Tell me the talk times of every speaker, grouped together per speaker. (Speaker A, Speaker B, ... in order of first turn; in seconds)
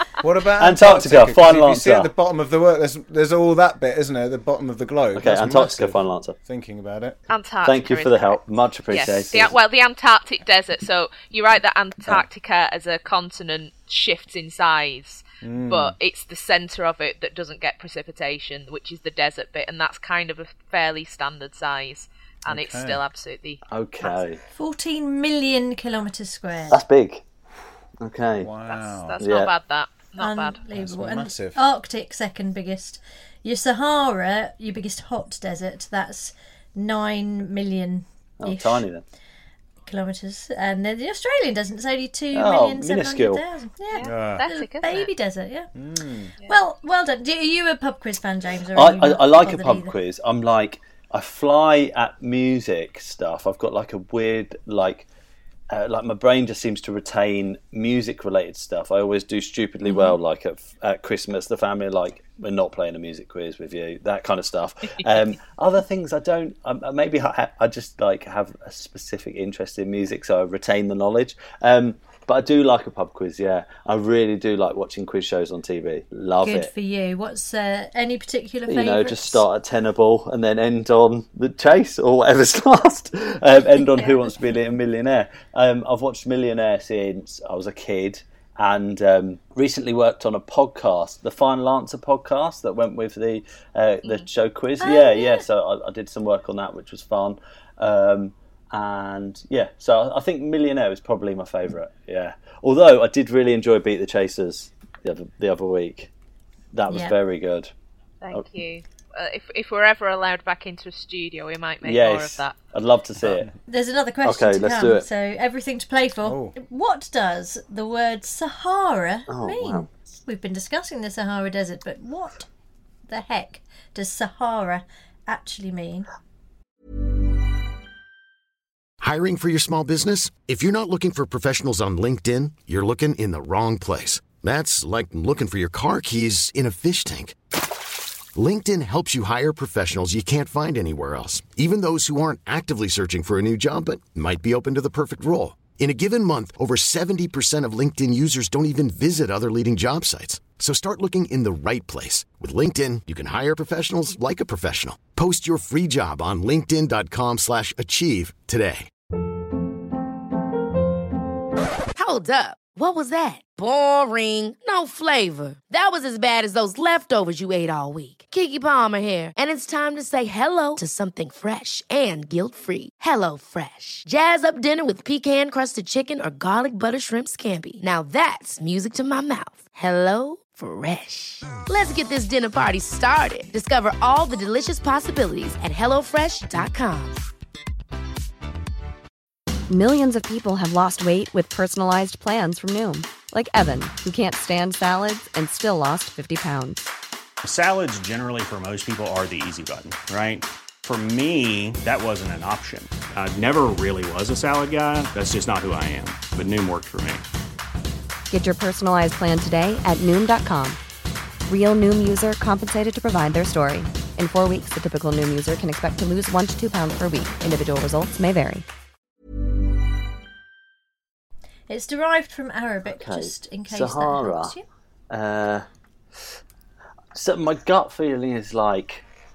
Speaker A: 0.2-7.2, 15.4-15.9, 22.5-23.0, 28.4-29.2, 30.7-31.6, 44.0-44.4, 45.7-46.3, 116.2-116.5
Speaker B: 0.6-2.1, 5.2-6.3, 7.6-9.5, 23.7-24.4, 26.7-27.2, 28.0-28.5, 29.2-29.5, 38.4-39.0, 42.3-43.4, 48.7-55.1, 55.7-76.7, 78.7-106.1, 106.7-107.7, 111.8-113.5, 114.2-115.0, 119.3-119.9, 222.9-224.5, 225.1-225.7, 227.1-229.0
Speaker C: 7.3-24.2, 28.7-30.6, 43.9-45.1, 108.2-112.6
Speaker D: 24.5-26.8, 30.2-38.9, 39.9-45.7, 46.4-49.9, 59.9-60.1, 76.4-79.5, 94.8-95.4, 106.9-107.1, 113.7-122.5, 123.1-126.1, 221.7-224.6
Speaker E: 129.0-137.3, 138.3-158.9
Speaker F: 161.9-187.2
Speaker G: 189.7-196.8, 208.3-210.8, 211.5-218.7
Speaker H: 197.4-207.2